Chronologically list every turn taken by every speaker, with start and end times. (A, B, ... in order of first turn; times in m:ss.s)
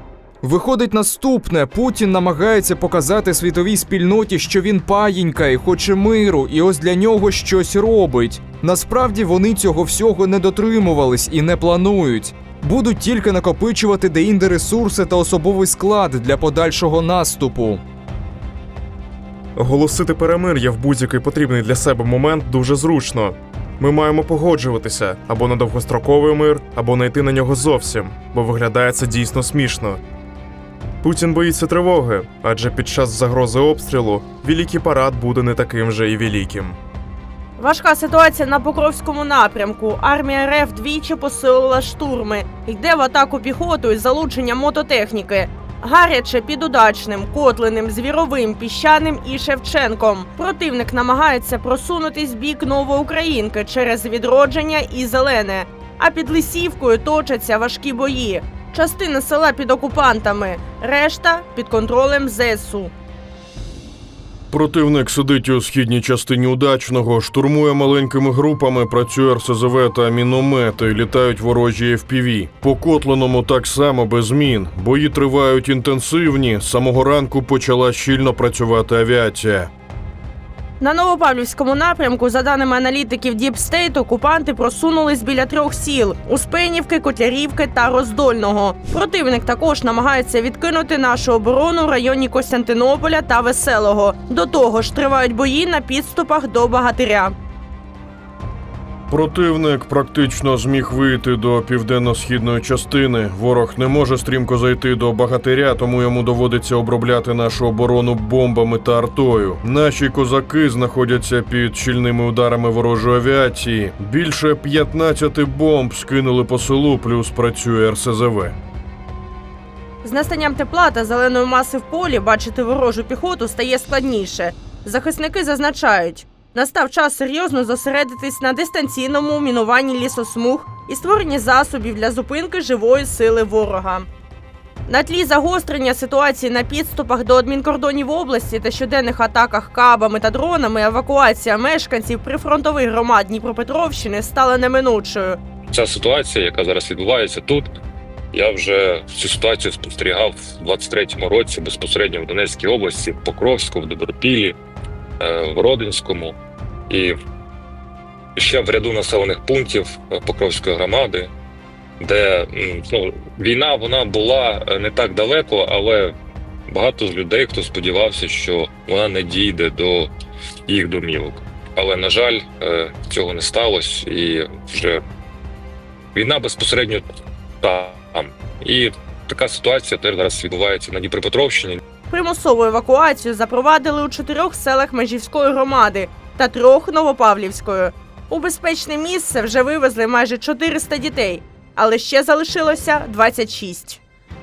0:00.4-0:17.8 A
0:19.6-0:30.0 B
0:31.0-0:36.8 B
0:37.6-1:02.9 C
1:04.5-1:19.7 D
1:20.8-1:37.4 C
1:39.1-1:58.6 D
2:00.0-2:14.1 C
2:14.9-2:25.4 C
2:25.7-2:27.8 E
2:28.3-2:34.6 E
2:35.2-2:36.4 E
2:36.9-2:37.2 E
2:38.4-2:41.3 E
2:42.0-2:46.2 E
2:46.7-2:50.1 E
2:50.7-2:55.0 E
2:56.1-2:57.1 E
2:57.6-3:01.8 E
3:02.1-3:14.0 C